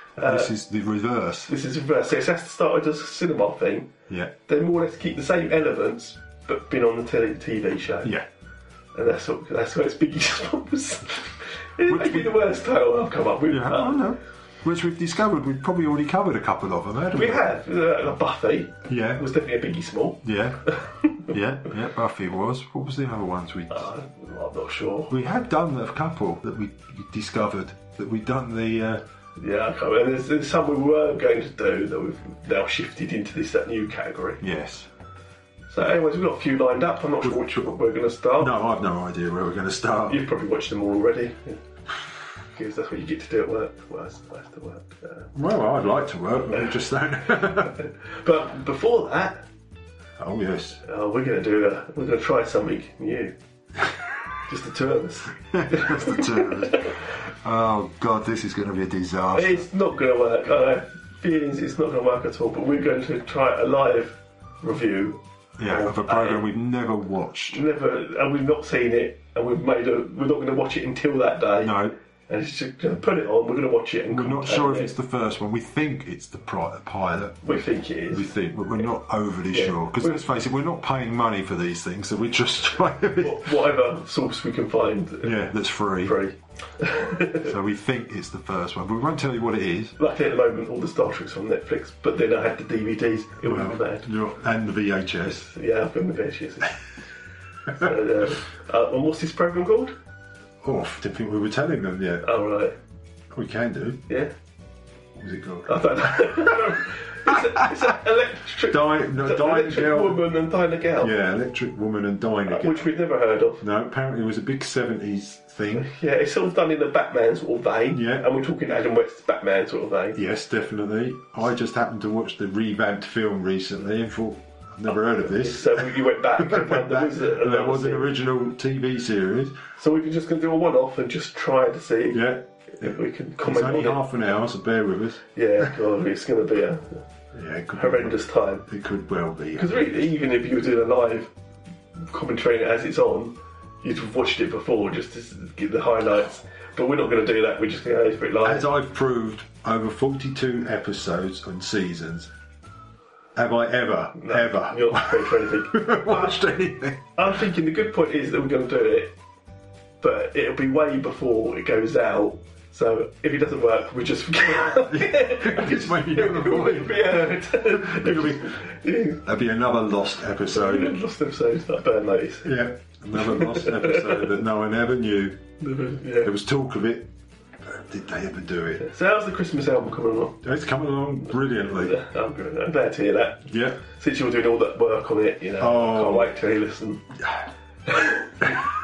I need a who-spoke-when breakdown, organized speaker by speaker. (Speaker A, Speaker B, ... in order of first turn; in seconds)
Speaker A: 0.2-0.5, 1.5-3.9, 4.5-8.1, 8.9-14.0, 17.1-21.3, 23.7-25.1, 29.4-34.4, 35.7-38.5, 40.1-41.6, 42.5-45.3, 47.6-49.4, 50.9-53.3, 54.5-56.9, 59.3-66.5, 67.5-74.9, 77.4-78.8, 79.5-80.2, 83.2-87.5, 90.0-94.1, 95.2-96.8, 97.7-99.9, 102.2-102.8, 104.1-104.3, 105.7-111.1, 112.5-113.6, 115.7-120.2, 125.1-128.1, 129.8-134.0, 135.3-137.0, 137.8-138.7, 139.6-141.3, 142.0-148.7, 154.2-156.3, 157.2-159.1, 160.0-169.2, 170.5-172.5, 173.1-174.3, 175.6-176.3, 178.8-180.4, 181.8-187.0, 187.9-188.3
Speaker B: 0.2-1.5, 4.1-4.3, 11.8-12.4, 13.5-17.5, 18.9-19.2, 20.2-20.6, 21.3-23.9, 25.1-29.0, 34.4-34.9, 37.2-37.8, 38.4-40.2, 45.3-47.8, 50.2-50.8, 55.5-59.7, 65.6-67.6, 71.6-72.0, 74.1-83.5, 85.2-86.2, 87.4-89.9, 93.4-95.4, 100.6-102.3, 103.3-104.0, 105.1-106.7, 107.3-107.7, 108.7-110.2, 111.0-112.9, 113.6-115.9, 117.9-118.3, 120.1-129.6, 132.1-135.7, 137.3-140.1, 148.4-152.3, 153.3-157.1, 164.5-168.6, 169.2-171.0, 172.4-175.4, 176.2-178.9, 180.4-182.0, 183.5-183.8, 185.6-186.3